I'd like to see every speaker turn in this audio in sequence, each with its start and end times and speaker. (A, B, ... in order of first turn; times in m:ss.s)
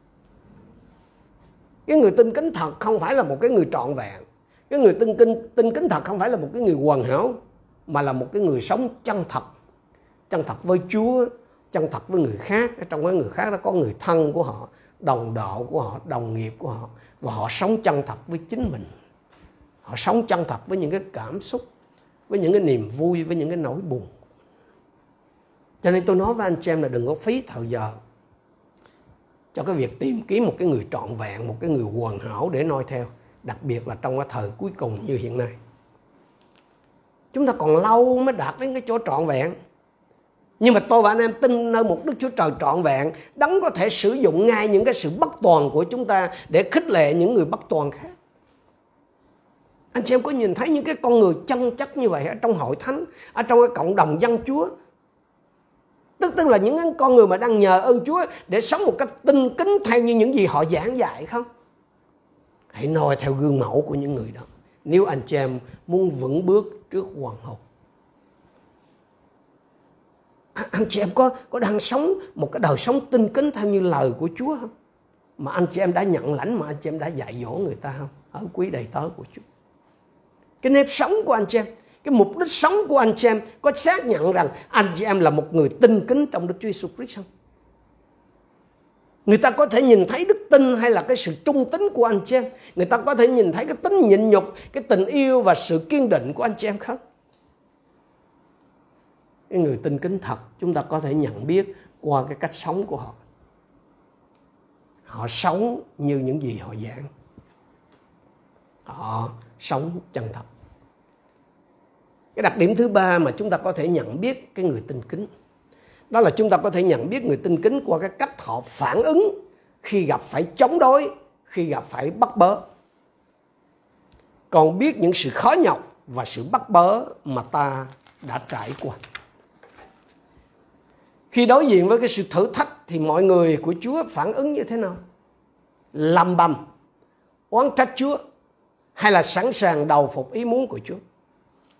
0:01.9-0:09.5 A
0:10.3-0:18.9 A
0:19.8-0:21.6 A
0:22.3-0:24.1 A
0:25.8-0:27.9 A
0:29.5-0:35.5 A
0:37.3-0:39.5 A
0:40.6-0:48.1 A
0:49.9-0:54.7 A
0:56.2-1:01.5 A
1:02.7-1:07.6 A
1:10.5-1:14.7 A
1:15.4-1:19.4 A
1:20.6-1:27.2 A
1:29.2-1:37.0 A
1:39.5-1:43.2 A
1:45.1-1:47.1 A
1:48.8-1:50.5 A
1:52.3-1:55.3 A
1:56.1-2:02.6 A
2:04.5-2:09.0 A
2:11.3-2:15.0 A
2:15.9-2:16.6 A
2:17.5-2:18.2 A
2:19.0-2:21.0 A